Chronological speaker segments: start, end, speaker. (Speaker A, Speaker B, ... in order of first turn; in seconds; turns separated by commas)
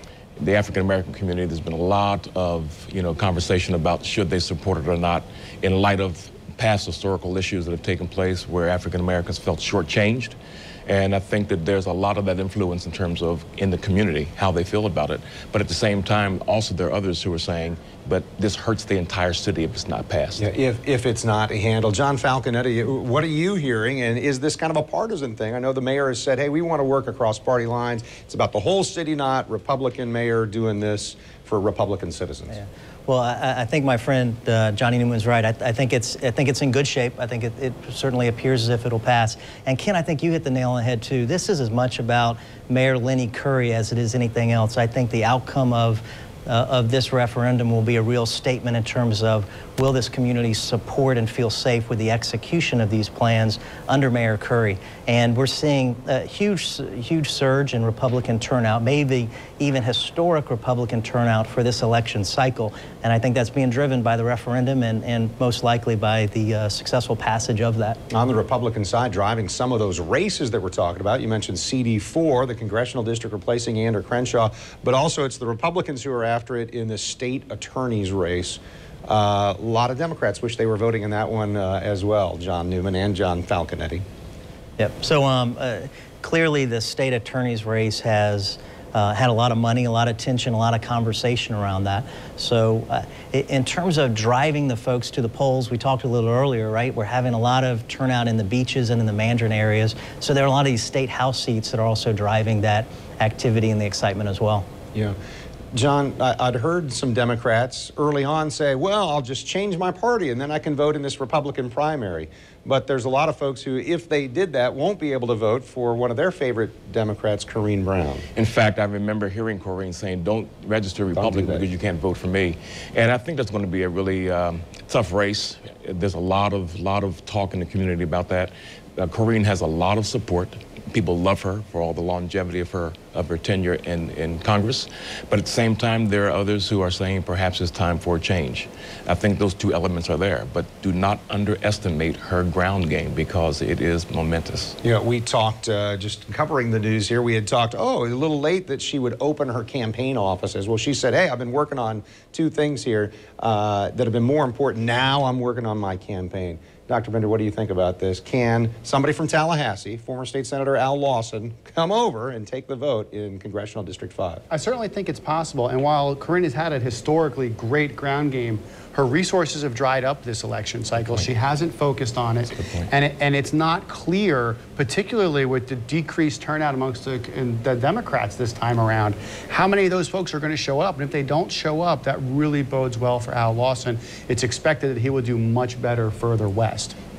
Speaker A: 0.4-20.4, Speaker B: 20.4-32.6, Speaker C: 32.5-68.0, Speaker B: 68.1-84.0, Speaker C: 84.8-104.7, Speaker B: 105.7-118.2, Speaker A: 118.3-144.8, Speaker B: 121.1-121.7, Speaker B: 144.8-164.4, Speaker D: 164.5-187.0, Speaker A: 171.0-171.3, Speaker A: 172.5-172.9